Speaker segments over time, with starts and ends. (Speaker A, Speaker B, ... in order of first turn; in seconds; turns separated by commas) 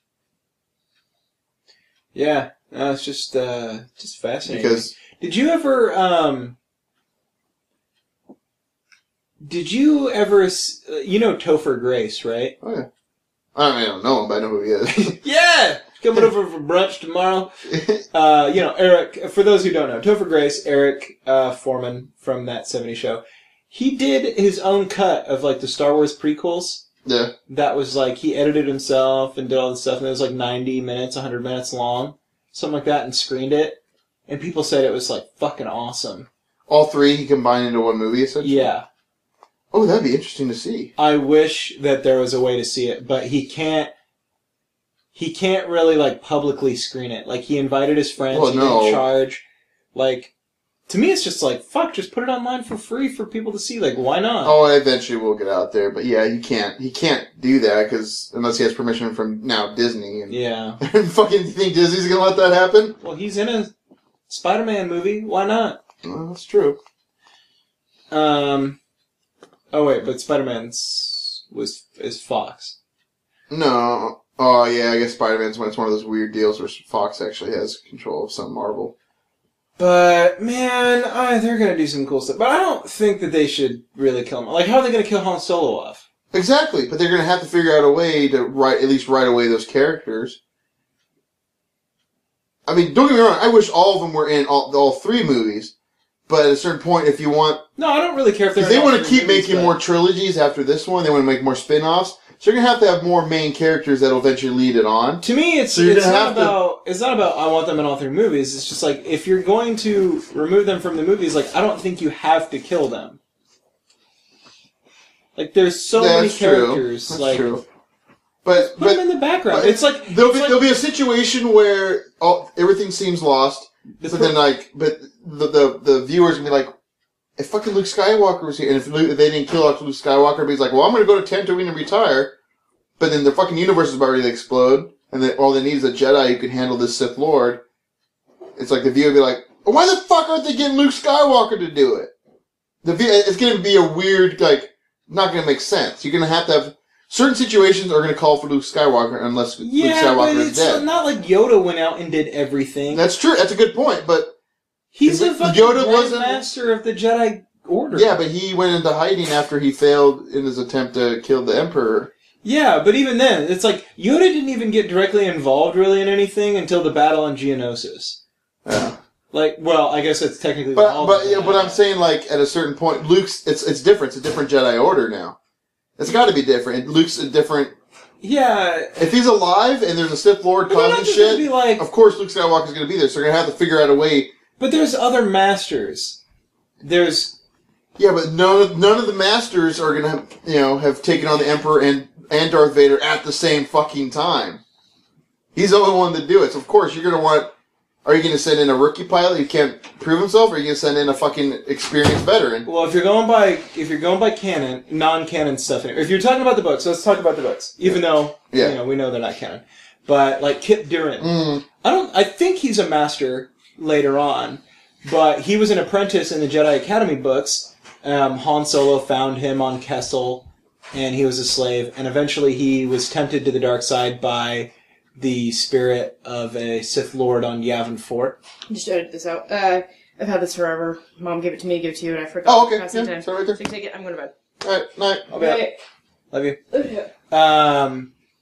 Speaker A: 2.1-6.5, Speaker B: 4.5-4.9, Speaker A: 9.4-12.5, Speaker B: 12.6-12.9, Speaker B: 13.5-15.2, Speaker A: 14.9-17.5, Speaker B: 17.7-18.0, Speaker A: 18.1-26.9, Speaker B: 27.0-27.3, Speaker A: 27.5-36.3, Speaker B: 36.7-38.7, Speaker A: 38.4-38.9, Speaker B: 39.7-40.9, Speaker A: 41.0-43.9, Speaker A: 45.1-50.3, Speaker B: 48.3-49.0, Speaker A: 50.9-54.6, Speaker B: 54.4-63.0, Speaker A: 60.3-60.8, Speaker A: 63.0-63.7, Speaker A: 64.3-65.8, Speaker B: 66.0-66.8, Speaker A: 68.1-68.8, Speaker A: 69.7-72.8, Speaker B: 73.5-78.9, Speaker A: 79.8-86.0, Speaker B: 86.3-90.4, Speaker B: 92.7-95.7, Speaker B: 96.3-97.6, Speaker A: 97.8-99.8, Speaker B: 98.6-106.6, Speaker A: 105.2-113.2, Speaker A: 115.3-117.5, Speaker B: 115.9-117.6, Speaker B: 118.4-126.7, Speaker A: 118.5-120.6, Speaker A: 124.0-124.4, Speaker B: 127.4-132.3, Speaker B: 133.0-137.6, Speaker B: 138.6-142.1, Speaker B: 142.8-150.8, Speaker A: 149.6-153.0, Speaker B: 152.9-154.3, Speaker A: 154.9-158.2, Speaker B: 155.0-156.5, Speaker B: 157.9-162.1, Speaker A: 162.4-168.2, Speaker B: 168.6-169.0, Speaker A: 169.3-171.8, Speaker B: 170.7-175.3, Speaker B: 176.0-177.7, Speaker A: 178.2-179.0, Speaker B: 179.0-184.3, Speaker A: 180.7-181.9, Speaker A: 184.6-186.2, Speaker A: 186.8-187.4, Speaker B: 188.0-194.6, Speaker B: 195.5-197.5, Speaker B: 198.0-202.7, Speaker A: 202.6-228.4, Speaker B: 207.8-208.8, Speaker B: 211.2-211.6, Speaker C: 228.7-234.3, Speaker B: 232.4-233.6, Speaker B: 234.6-235.3, Speaker A: 235.3-235.7, Speaker C: 235.3-235.8, Speaker A: 236.3-236.6, Speaker C: 236.7-237.1, Speaker A: 237.3-238.1